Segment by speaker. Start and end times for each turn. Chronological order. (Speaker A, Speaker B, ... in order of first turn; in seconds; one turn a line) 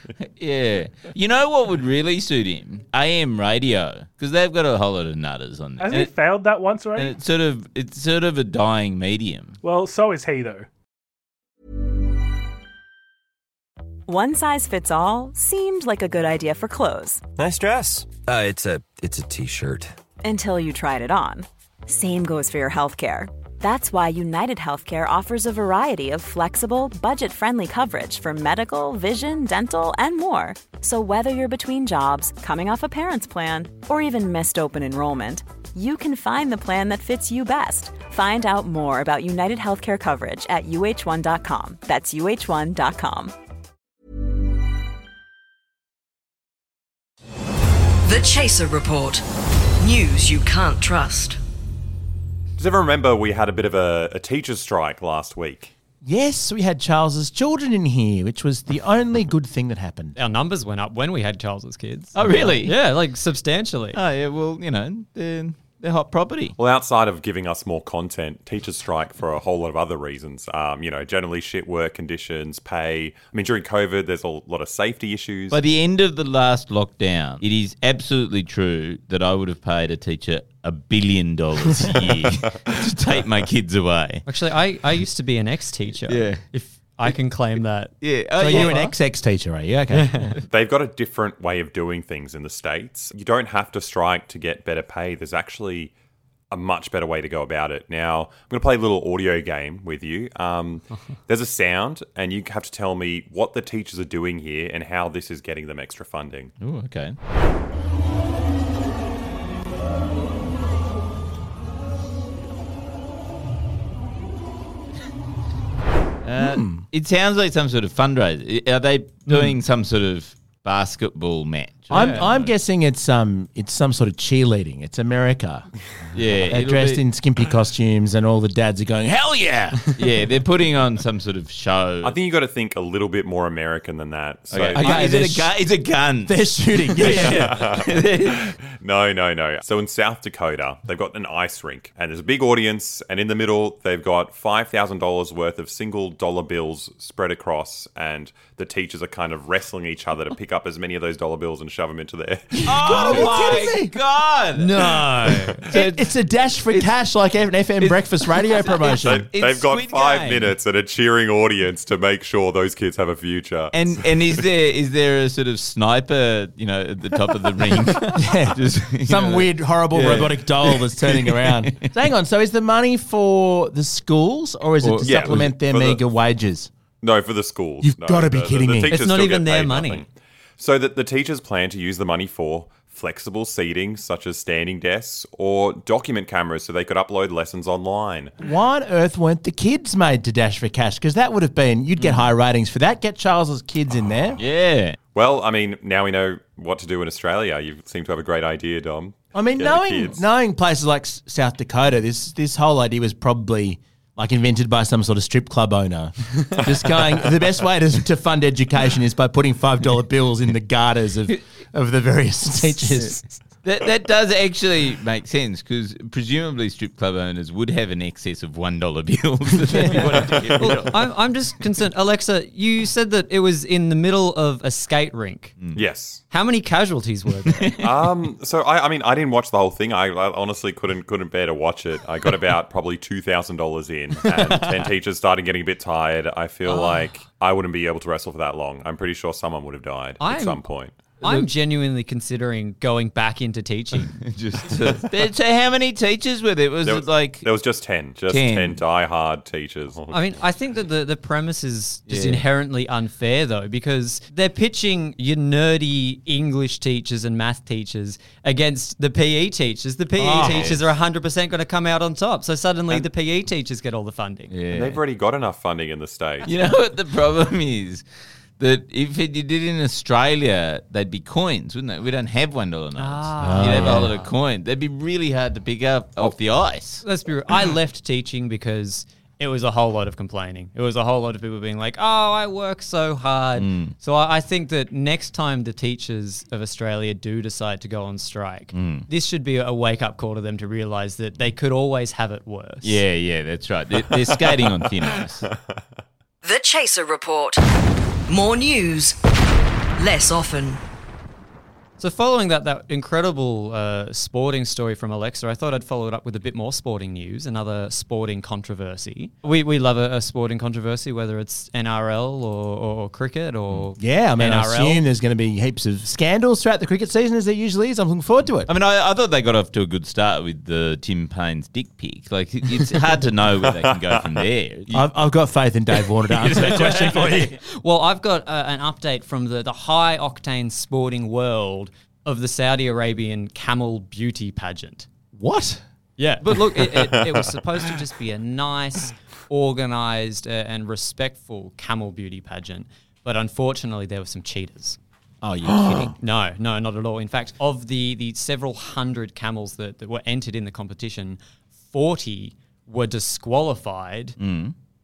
Speaker A: 0.2-6.1
Speaker B: 5.8-7.2
Speaker A: 7.0-9.6
Speaker B: 9.6-10.7
Speaker C: 14.1-17.2
Speaker D: 17.4-19.9
Speaker C: 20.2-43.3
Speaker E: 48.0-49.2
Speaker E: 49.8-51.4
Speaker F: 52.6-55.7
Speaker G: 56.0-60.1
Speaker H: 60.1-64.0
Speaker A: 62.1-62.8
Speaker A: 63.9-66.6
Speaker F: 66.6-75.6
Speaker A: 75.5-84.2
Speaker H: 84.3-88.9
Speaker A: 86.1-86.4
Speaker A: 88.0-88.9
Speaker G: 88.4-90.3
Speaker H: 89.9-90.3
Speaker F: 90.5-95.9
Speaker F: 96.5-106.5
Speaker A: 106.6-107.2
Speaker A: 116.2-122.5
Speaker G: 116.4-116.8
Speaker G: 119.3-119.5
Speaker G: 121.9-125.7
Speaker H: 121.9-122.2
Speaker A: 126.1-127.0
Speaker G: 126.5-129.9
Speaker A: 130.0-132.2
Speaker F: 132.0-135.2
Speaker A: 134.5-138.5
Speaker G: 134.7-135.5
Speaker G: 136.2-137.5
Speaker F: 137.0-153.5
Speaker A: 152.6-156.1
Speaker G: 152.7-153.9
Speaker H: 154.6-155.6
Speaker G: 155.7-159.3
Speaker A: 156.7-157.0
Speaker A: 157.8-160.5
Speaker F: 158.8-164.4
Speaker A: 163.7-171.9
Speaker G: 168.0-176.7
Speaker A: 174.8-175.5
Speaker F: 175.0-176.0
Speaker F: 177.0-188.3
Speaker G: 177.8-178.9
Speaker H: 178.9-180.1
Speaker G: 188.4-194.4
Speaker A: 192.0-192.3
Speaker A: 194.4-195.0
Speaker F: 195.1-200.2
Speaker G: 199.3-213.2
Speaker A: 213.6-221.1
Speaker F: 220.3-220.8
Speaker H: 220.6-225.6
Speaker F: 225.8-226.2
Speaker H: 226.3-227.8
Speaker A: 227.5-227.9
Speaker F: 227.8-241.0
Speaker H: 236.7-237.1
Speaker H: 240.2-244.2
Speaker A: 241.2-241.5
Speaker A: 244.1-247.5
Speaker F: 246.8-250.4
Speaker A: 248.3-248.8
Speaker H: 250.1-264.5
Speaker A: 252.1-252.4
Speaker G: 260.2-260.8
Speaker A: 260.2-260.9
Speaker A: 264.5-265.0
Speaker F: 264.7-266.5
Speaker A: 266.4-268.0
Speaker A: 268.6-277.0
Speaker H: 273.0-274.3
Speaker G: 273.4-274.1
Speaker H: 277.0-293.0
Speaker A: 283.6-283.9
Speaker A: 288.7-289.1
Speaker A: 292.8-295.5
Speaker F: 295.4-295.8
Speaker E: 296.4-297.6
Speaker E: 298.3-299.2
Speaker E: 300.0-300.8
Speaker H: 302.0-315.0
Speaker G: 314.0-318.7
Speaker A: 318.7-325.1
Speaker F: 323.7-324.4
Speaker G: 324.9-327.6
Speaker H: 326.6-335.1
Speaker A: 326.6-327.4
Speaker G: 335.3-335.8
Speaker H: 336.2-345.0
Speaker F: 336.8-337.5
Speaker G: 345.4-346.1
Speaker H: 346.1-351.4
Speaker H: 351.9-354.4
Speaker A: 354.4-354.8